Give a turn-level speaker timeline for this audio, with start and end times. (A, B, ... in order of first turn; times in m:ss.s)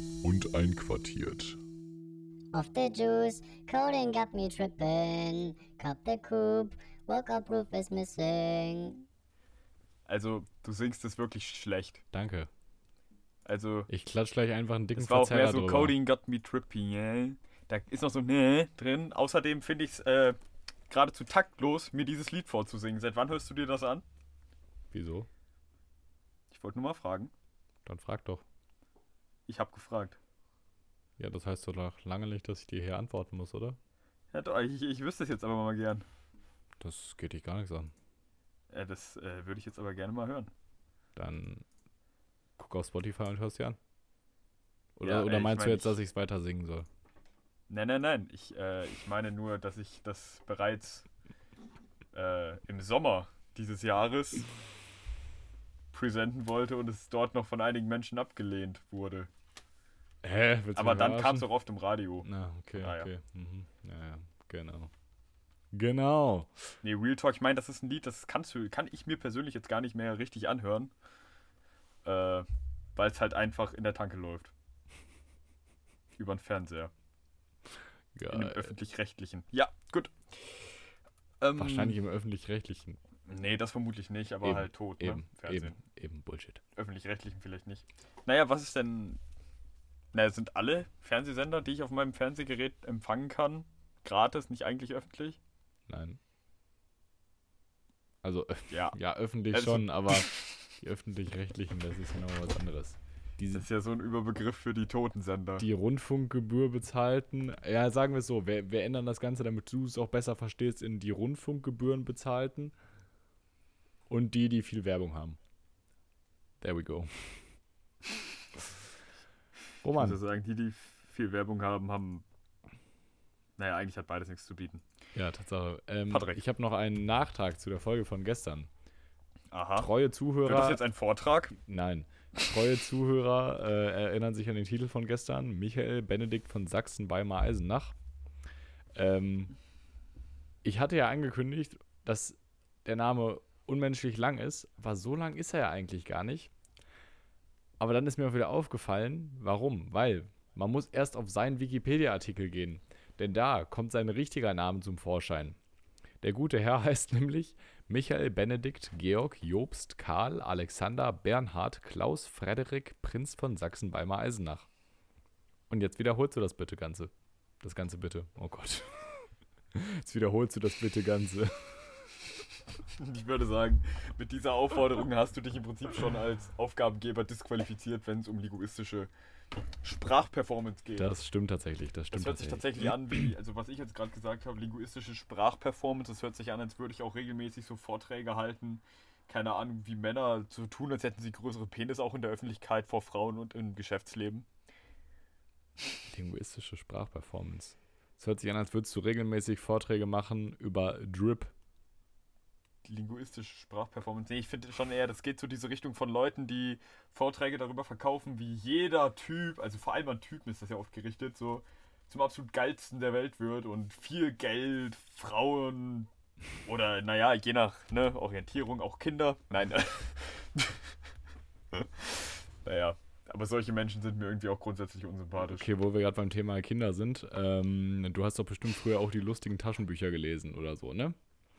0:00.2-0:01.6 A
0:02.5-0:09.0 B
0:10.1-0:12.0 C
0:12.1-0:12.5 A
0:13.4-0:13.9 C
0:13.9-0:16.0 A
0:15.0-0:20.4 C
0:20.9-0:24.0 C
0:24.9-0:25.3 A
0:26.5-0:27.3 C
0:27.8-0:28.4 A
0:29.5-0:30.2 C
0:31.2-0:33.8 A
0:34.3-0:36.0 C
0:36.8-0:37.9 A
0:38.7-0:40.5 C
0:41.2-0:41.6 A
0:42.6-0:43.8 A
0:45.0-0:46.9 A
0:45.0-0:46.0 C
0:47.7-0:51.0 C
0:52.1-0:54.5 C
0:55.9-0:59.3 C
1:00.2-1:01.5 A
1:00.8-1:03.1 C
1:02.2-1:04.9 A
1:05.7-1:06.5 A
1:06.8-1:10.9 C
1:12.0-1:14.5 C
1:16.2-1:16.9 C
1:18.2-1:18.7 A
1:18.3-1:20.8 C
1:21.4-1:22.0 C
1:21.6-1:23.0 A
1:23.3-1:25.8 C
1:24.4-1:26.6 A
1:26.8-1:29.2 C
1:30.1-1:35.4 C
1:35.9-1:36.2 A
1:38.2-1:43.6 A
1:38.7-1:39.0 C
1:39.5-1:40.6 C
1:43.5-1:45.6 C
1:45.6-1:52.7 A
1:54.1-1:55.4 A
1:56.6-1:57.4 A
1:59.8-2:00.2 A
1:59.9-2:02.2 C
2:03.6-2:04.8 C
2:05.1-2:08.7 A
2:06.1-2:06.4 C
2:09.5-2:09.9 C
2:09.8-2:10.8 A
2:10.4-2:11.5 C
2:11.6-2:17.9 A
2:19.0-2:19.5 A
2:20.6-2:26.5 A
2:27.8-2:35.6 A
2:36.2-2:44.7 A
2:45.7-2:47.1 A
2:47.6-2:52.2 A
2:53.0-2:59.1 C
2:59.8-3:01.1 C
3:00.9-3:02.8 A
3:02.1-3:14.4 C
3:16.1-3:21.5 A
3:22.8-3:36.1 C
3:36.6-3:40.9 C
3:41.7-3:45.7 C
3:45.5-3:51.1 A